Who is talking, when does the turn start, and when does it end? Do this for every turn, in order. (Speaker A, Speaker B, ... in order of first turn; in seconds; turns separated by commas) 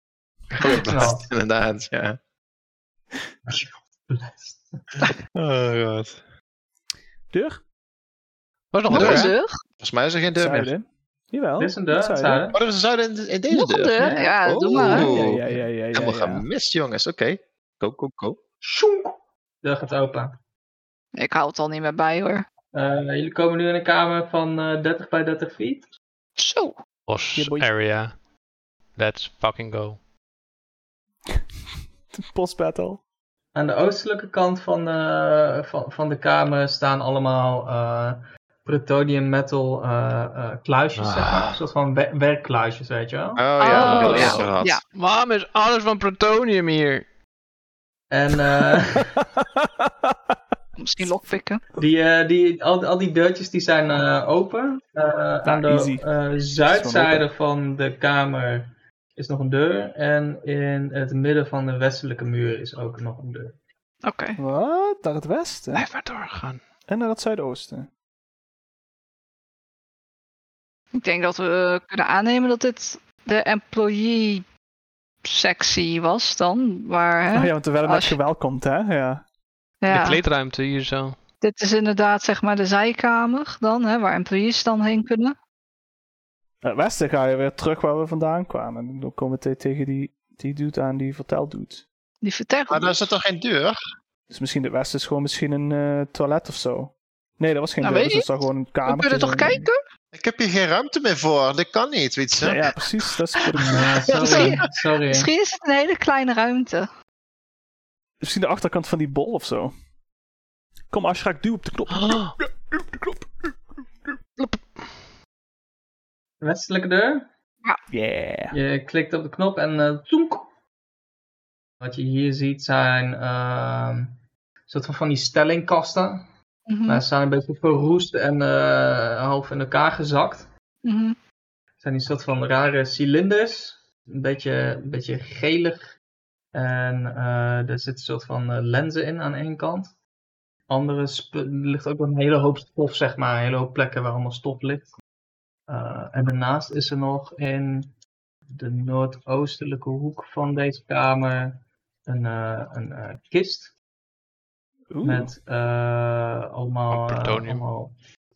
Speaker A: 0.6-2.2, Speaker B: 0.6-1.3, Speaker B: 3.5-4.9, Speaker A: 5.3-6.2, Speaker C: 7.3-7.6, Speaker D: 8.7-9.3, Speaker E: 8.9-9.6, Speaker A: 8.9-10.7, Speaker C: 10.3-12.4, Speaker B: 11.6-12.6, Speaker A: 12.5-18.4, Speaker E: 13.5-15.2, Speaker C: 14.9-16.4, Speaker B: 18.6-20.4, Speaker E: 21.1-22.4, Speaker B: 22.7-25.9, Speaker E: 26.4-26.8, Speaker D: 27.1-28.2, Speaker C: 27.3-27.7, Speaker D: 29.0-30.0, Speaker C: 32.1-33.0, Speaker B: 33.5-44.3, Speaker D: 41.0-41.5, Speaker A: 43.4-44.8, Speaker E: 43.6-44.8, Speaker D: 43.8-47.0, Speaker B: 48.1-49.1, Speaker C: 49.4-50.1, Speaker E: 50.8-51.6, Speaker B: 51.7-63.5, Speaker C: 55.4-56.1, Speaker C: 56.6-57.3, Speaker E: 64.0-64.4, Speaker C: 64.4-65.9, Speaker D: 65.7-66.6, Speaker C: 66.9-67.9, Speaker E: 71.0-74.4, Speaker E: 75.2-78.2, Speaker C: 77.3-79.2, Speaker E: 79.8-80.2, Speaker D: 79.9-81.2, Speaker E: 81.4-85.3, Speaker C: 86.6-91.8, Speaker E: 92.2-93.0, Speaker A: 92.7-93.8, Speaker C: 94.3-99.6, Speaker E: 97.8-98.3, Speaker E: 98.8-99.8, Speaker A: 100.1-102.6, Speaker C: 102.3-104.4, Speaker B: 103.6-105.3, Speaker E: 104.1-106.9, Speaker C: 108.2-109.7, Speaker C: 110.9-113.2, Speaker D: 111.9-112.3, Speaker D: 114.4-114.8, Speaker B: 116.4-117.3, Speaker C: 117.9-118.6, Speaker B: 118.5-120.5, Speaker B: 121.8-126.2, Speaker E: 126.7-127.0, Speaker B: 126.9-130.5, Speaker E: 130.8-131.2, Speaker B: 131.8-135.9, Speaker B: 136.5-139.9, Speaker B: 140.7-144.9, Speaker B: 145.7-147.9, Speaker B: 148.5-153.7, Speaker C: 154.9-155.3, Speaker B: 155.0-157.9, Speaker D: 156.9-157.6